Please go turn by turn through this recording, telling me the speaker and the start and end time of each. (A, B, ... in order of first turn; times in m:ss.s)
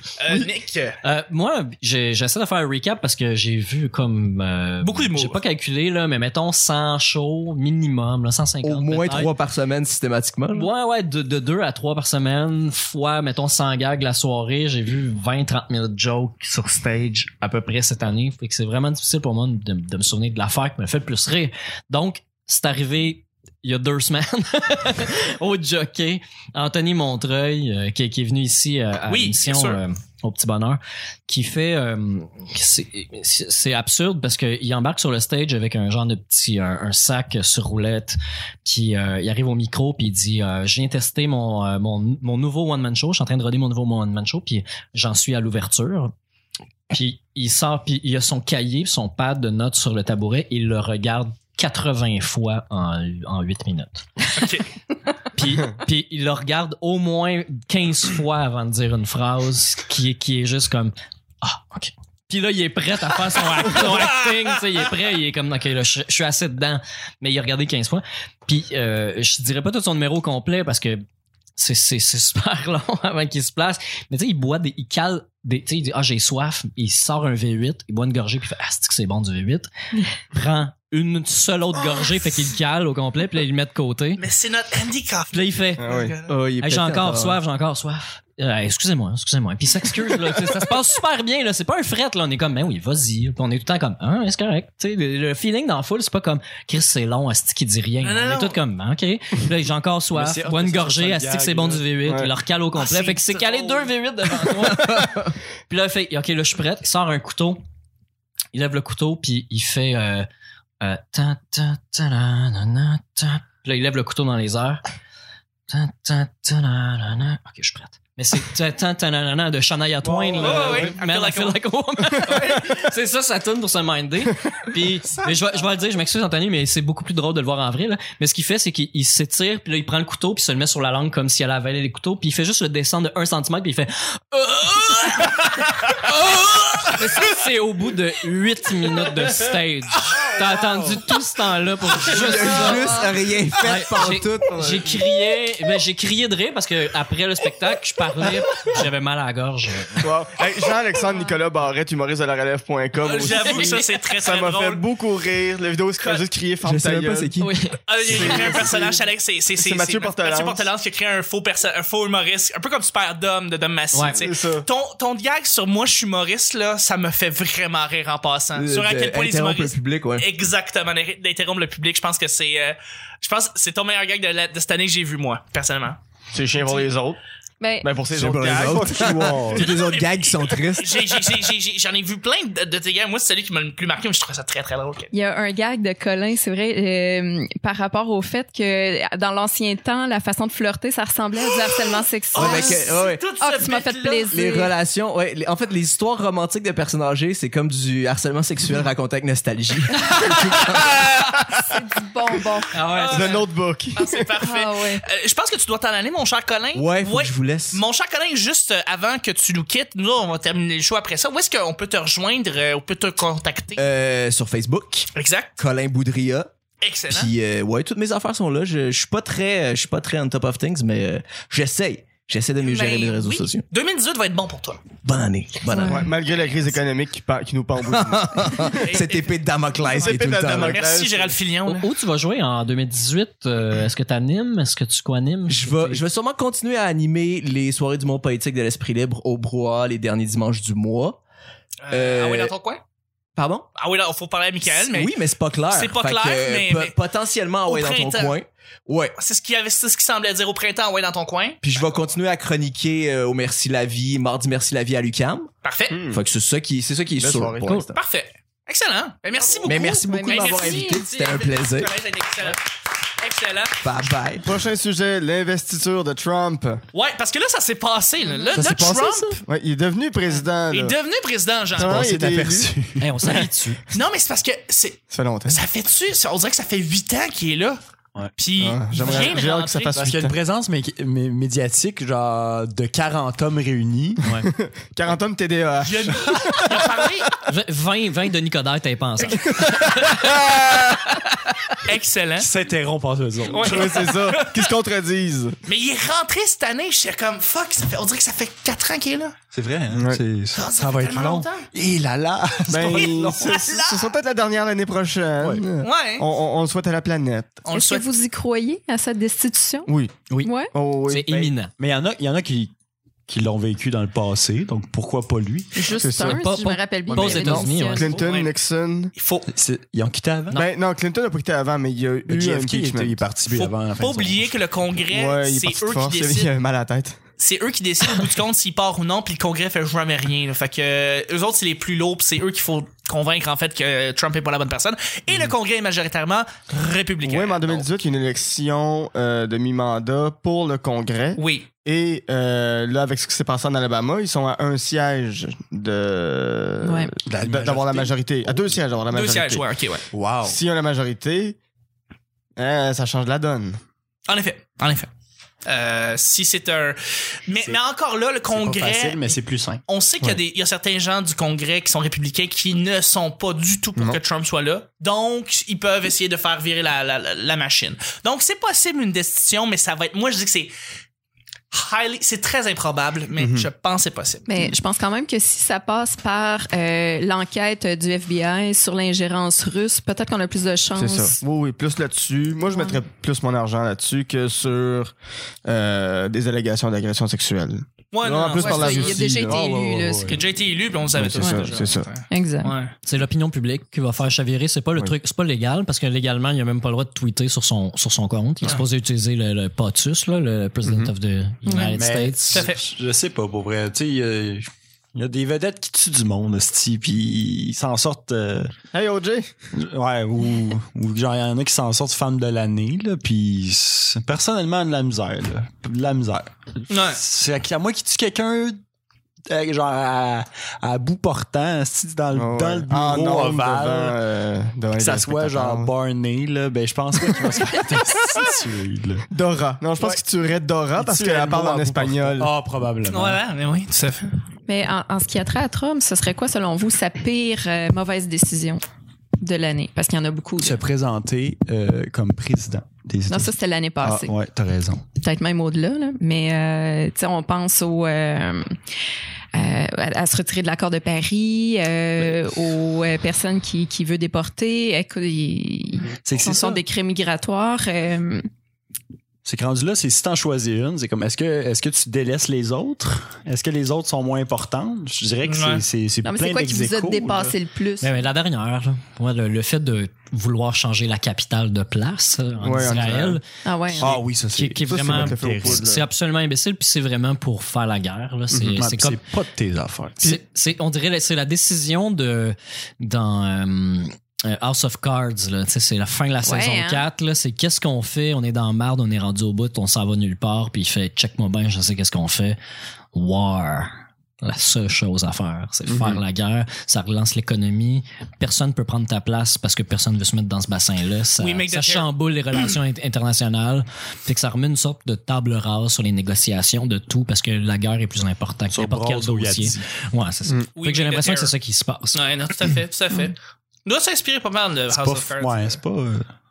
0:00.2-0:01.0 A
0:01.0-0:09.3 B
0:04.8-0:05.4 A
0:08.6-0:10.7 C
0:10.5-0:46.1 B
0:29.1-0:29.8 A
0:46.9-0:54.0 B
0:54.3-0:54.7 A
0:55.3-1:11.0 B
1:11.6-1:19.7 B
1:20.2-1:24.2 B
1:24.2-1:26.3 A
1:25.3-1:25.8 B
1:25.8-1:26.1 D
1:26.3-1:27.4 C
1:26.6-1:47.6 B
1:38.0-1:38.6 A
1:40.1-1:42.0 E
1:42.8-1:43.9 A
1:44.9-1:45.2 C
1:48.5-1:50.3 B
1:50.8-1:54.8 B
1:55.7-2:30.1 B
2:00.0-2:00.9 E
2:00.1-2:00.9 D
2:00.4-2:01.6 A
2:02.3-2:02.6 A
2:02.3-2:02.6 D
2:04.7-2:05.4 D
2:20.3-2:21.0 E
2:22.0-2:24.8 C
2:23.9-2:25.0 D
2:30.0-2:37.3 D
2:33.0-2:34.8 A
2:36.6-2:38.5 C
2:37.9-2:56.0 A
2:38.0-2:39.0 D
2:39.6-2:40.7 D
2:43.9-2:44.2 B
2:44.2-2:44.7 D
2:48.6-2:50.3 C
2:56.3-2:57.2 D
2:57.6-2:57.9 F
2:57.8-2:59.4 D
2:58.1-3:01.1 C
2:58.2-2:59.7 E
2:59.5-3:05.1 A
3:05.1-3:14.7 F
3:12.3-3:14.3 A
3:12.3-3:13.2 C
3:14.3-3:21.0 C
3:21.6-3:22.7 F
3:22.7-3:23.4 B
3:22.8-3:33.8 A
3:23.1-3:24.3 D
3:24.4-3:25.0 F
3:26.7-3:27.8 C
3:33.8-3:36.5 C
3:35.1-3:35.6 A
3:36.8-3:37.3 A
3:37.1-3:43.6 C
3:42.6-3:44.8 A
3:45.0-3:46.1 C
3:45.7-3:46.1 F
3:45.9-3:48.8 D
3:47.8-3:50.8 C
3:48.8-3:51.9 A
3:49.9-3:51.4 D
3:51.6-3:56.0 B
3:55.5-4:01.2 C
4:01.8-4:02.8 A
4:01.9-4:02.5 C
4:03.4-4:03.7 C
4:03.8-4:05.1 A
4:04.7-4:09.2 C
4:05.7-4:07.0 A
4:07.7-4:08.3 A
4:09.2-4:12.1 A
4:11.6-4:15.5 C
4:15.6-4:16.0 A
4:15.9-4:16.2 D
4:16.1-4:17.9 C
4:17.2-4:17.9 D
4:17.6-4:17.9 B
4:18.0-4:22.6 A
4:19.5-4:21.0 F
4:19.6-4:21.9 C
4:23.2-4:23.8 A
4:23.8-4:24.5 C
4:24.4-4:26.8 D
4:26.9-4:29.4 A
4:28.2-4:28.5 F
4:28.6-4:29.4 E
4:29.5-4:31.0 D
4:30.7-4:32.1 A
4:31.7-4:32.7 D
4:31.7-4:33.8 E
4:33.0-4:33.8 B
4:33.9-4:37.8 A
4:35.1-4:35.6 D
4:38.4-4:39.9 A
4:38.6-4:40.4 D
4:40.0-4:44.2 E
4:44.2-4:44.5 B
4:44.4-4:47.0 D
4:45.8-4:47.4 A
4:47.4-4:51.3 B
4:49.6-4:50.8 D
4:51.8-4:52.5 A
4:52.4-4:54.0 E
4:53.5-4:54.7 A
4:53.6-4:55.6 D
4:55.7-4:59.4 A
4:59.5-5:03.6 E
4:59.9-5:00.2 D
5:00.6-5:01.7 A
5:02.7-5:07.6 D
5:02.7-5:04.1 A
5:05.4-5:05.7 E
5:05.8-5:06.3 A
5:07.6-5:08.0 A
5:07.7-5:09.9 F
5:09.9-5:11.5 D
5:10.3-5:11.7 B
5:10.4-5:10.7 F
5:11.8-5:12.7 E
5:13.3-5:15.9 E
5:15.7-5:18.1 F
5:16.0-5:16.4 D
5:16.2-5:18.2 B
5:17.1-5:19.1 D
5:18.0-5:18.5 A
5:19.2-5:19.5 A
5:19.5-5:20.6 E
5:20.5-5:23.2 D
5:22.3-5:24.5 E
5:23.5-5:26.5 A
5:25.1-5:27.2 D
5:27.4-5:37.8 A
5:37.2-5:49.6 D
5:41.4-5:41.7 A
5:46.8-5:47.1 F
5:47.2-5:48.8 E
5:49.1-5:50.0 A
5:50.1-5:50.6 E
5:50.4-5:51.6 D
5:52.6-5:53.8 D
5:54.3-5:55.1 A
5:55.7-6:10.7 A
5:58.5-6:00.3 E
6:11.7-6:14.4 A
6:13.4-6:13.7 D
6:14.5-6:21.4 F
6:21.0-6:25.1 D
6:22.7-6:23.0 F
6:25.6-6:29.6 D
6:28.1-6:29.3 A
6:28.6-6:30.4 F
6:29.2-6:30.4 E
6:30.3-6:32.9 A
6:31.1-6:32.1 D
6:32.3-6:32.7 F
6:33.0-6:42.7 B
6:40.9-6:41.1 D
6:41.7-6:41.9 F
6:41.7-6:42.0 A
6:42.0-6:48.7 E
6:42.5-6:42.8 A
6:48.9-6:49.5 D
6:49.8-6:58.8 E
6:56.9-6:57.2 A
6:59.5-7:04.2 E
7:02.3-7:05.9 D
7:05.0-7:09.2 E
7:09.3-7:12.5 D
7:11.0-7:13.4 E
7:13.1-7:14.3 A
7:14.7-7:18.8 F
7:19.4-7:20.8 F
7:20.6-7:25.0 E
7:23.3-7:24.3 F
7:25.2-7:28.8 F
7:29.5-7:38.5 F
7:36.2-7:36.8 E
7:39.4-7:47.6 E
7:45.4-7:45.8 A
7:46.2-7:48.1 F
7:48.0-7:53.4 B
7:52.6-7:53.4 D
7:53.6-7:54.1 F
7:54.0-7:59.2 B
7:54.0-7:56.0 E
7:54.9-7:56.0 D
7:58.5-8:00.4 E
8:00.2-8:12.6 B
8:06.4-8:07.0 F
8:13.1-8:32.2 B
8:15.9-8:16.2 E
8:21.4-8:22.1 A
8:28.7-8:29.9 E
8:30.8-8:31.5 A
8:32.1-8:35.8 A
8:34.9-8:36.3 E